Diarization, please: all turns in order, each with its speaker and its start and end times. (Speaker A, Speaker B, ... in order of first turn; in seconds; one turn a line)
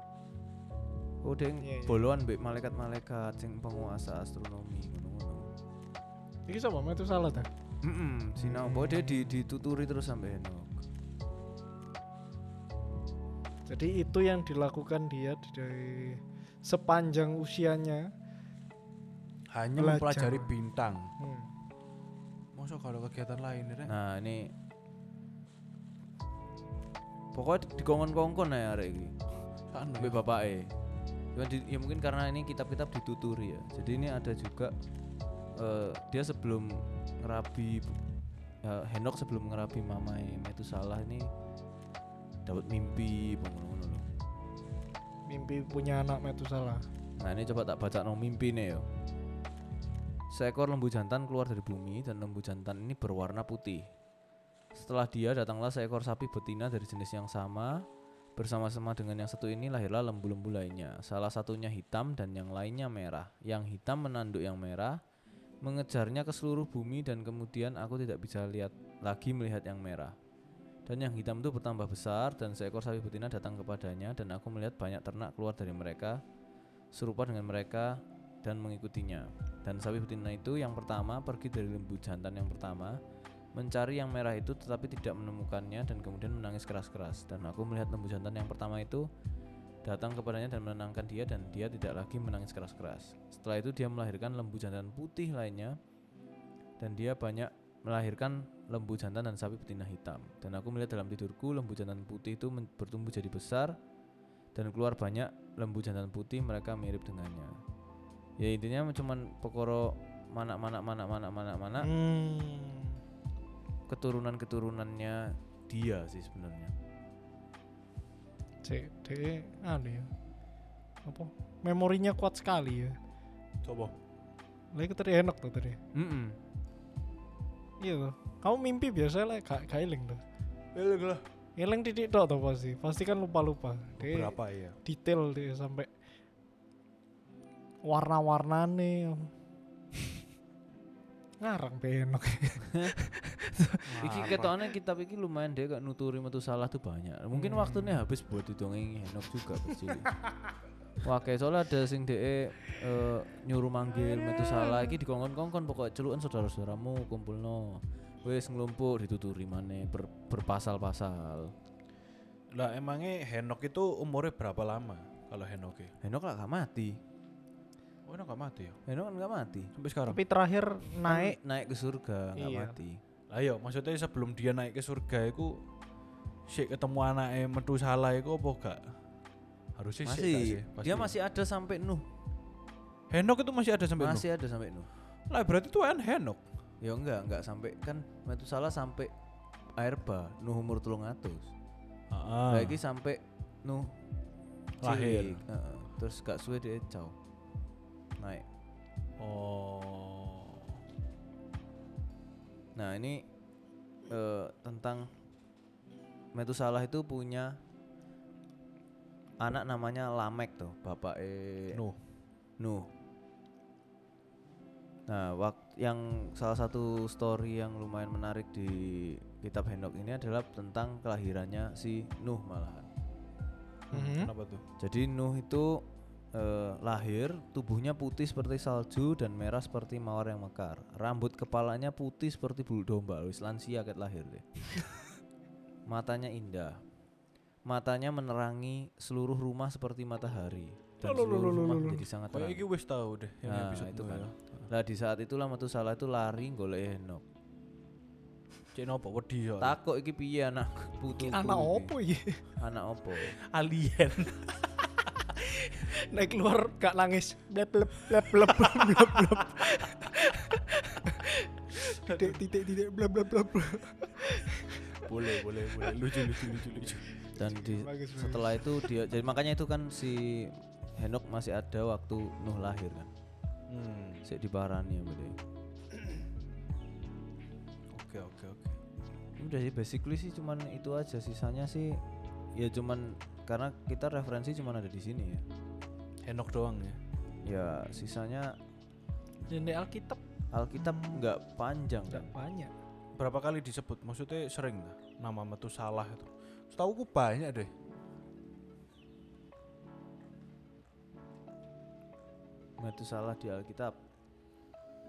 Speaker A: 1.2-5.5
Speaker B: 1.6-2.1
Speaker B: 6.5-7.5
Speaker A: 7.8-10.8
Speaker B: 8.4-9.3
Speaker B: 13.7-18.1
Speaker C: 19.5-21.1
Speaker B: 19.8-20.5
Speaker B: 21.2-21.5
Speaker C: 22.5-23.9
Speaker A: 23.9-24.5
Speaker A: 27.3-29.2
Speaker C: 29.7-30.2
Speaker A: 30.0-30.7
Speaker A: 31.3-34.7
Speaker A: 35.6-38.0
Speaker A: 38.6-41.3
Speaker A: 42.5-44.0
Speaker B: 45.3-46.8
Speaker A: 47.2-48.8
Speaker A: 50.3-53.9
Speaker A: 54.7-57.8
Speaker A: 58.4-65.0
Speaker A: 65.6-70.2
Speaker A: 70.8-76.2
Speaker A: 76.9-83.0
Speaker A: 83.5-89.1
Speaker A: 89.8-95.8
Speaker A: 96.8-103.8
Speaker A: 104.5-107.6
Speaker A: 108.4-111.9
Speaker B: 111.8-113.0
Speaker A: 113.9-116.7
Speaker B: 118.6-120.1
Speaker B: 121.0-123.0
Speaker C: 123.6-123.9
Speaker B: 124.7-125.8
Speaker A: 125.9-126.4
Speaker B: 127.8-130.2
Speaker C: 130.7-131.2
Speaker B: 131.6-135.9
Speaker C: 134.0-134.8
Speaker B: 137.8-139.3
Speaker B: 141.4-143.9
Speaker C: 143.9-144.6
Speaker A: 144.0-150.1
Speaker B: 147.3-148.0
Speaker A: 151.0-161.5
Speaker B: 154.3-154.9
Speaker C: 162.5-165.9
Speaker A: 166.0-167.0
Speaker C: 168.1-168.8
Speaker A: 168.9-169.7
Speaker C: 169.8-170.2
Speaker B: 170.1-171.4
Speaker A: 171.1-173.0
Speaker B: 172.4-172.8
Speaker C: 173.3-175.6
Speaker C: 176.5-178.8
Speaker C: 179.8-181.1
Speaker A: 180.0-182.0
Speaker C: 183.1-184.3
Speaker A: 184.0-184.9
Speaker C: 185.3-186.4
Speaker A: 186.8-189.1
Speaker A: 189.8-191.5
Speaker C: 192.1-192.8
Speaker A: 192.5-193.9
Speaker A: 194.8-197.1
Speaker C: 194.8-195.4
Speaker A: 198.2-198.4
Speaker C: 199.2-200.8
Speaker A: 202.8-203.2
Speaker A: 204.1-205.1
Speaker A: 206.3-207.6
Speaker A: 209.4-211.8
Speaker C: 211.7-212.0
Speaker A: 212.6-212.9
Speaker A: 215.1-222.9
Speaker B: 223.9-224.3
Speaker C: 223.9-224.6
Speaker A: 224.8-234.5
Speaker A: 235.9-236.8
Speaker A: 237.7-242.6
Speaker B: 241.0-242.0
Speaker C: 242.3-244.7
Speaker A: 243.4-247.2
Speaker C: 248.7-249.8
Speaker A: 249.6-251.9
Speaker B: 251.1-252.4
Speaker A: 252.6-253.4
Speaker C: 253.4-254.8
Speaker B: 255.2-266.6
Speaker C: 258.5-259.1
Speaker C: 261.8-262.4
Speaker C: 265.0-267.1
Speaker A: 267.4-273.1
Speaker B: 267.4-268.8
Speaker C: 273.7-274.2
Speaker A: 274.2-275.4
Speaker C: 277.9-278.8
Speaker A: 279.4-282.0
Speaker A: 282.5-285.4
Speaker C: 286.2-287.0
Speaker A: 287.4-288.6
Speaker B: 289.5-290.2
Speaker A: 290.5-292.3
Speaker B: 290.8-291.2
Speaker B: 292.1-292.7
Speaker C: 293.2-297.7
Speaker A: 302.8-304.0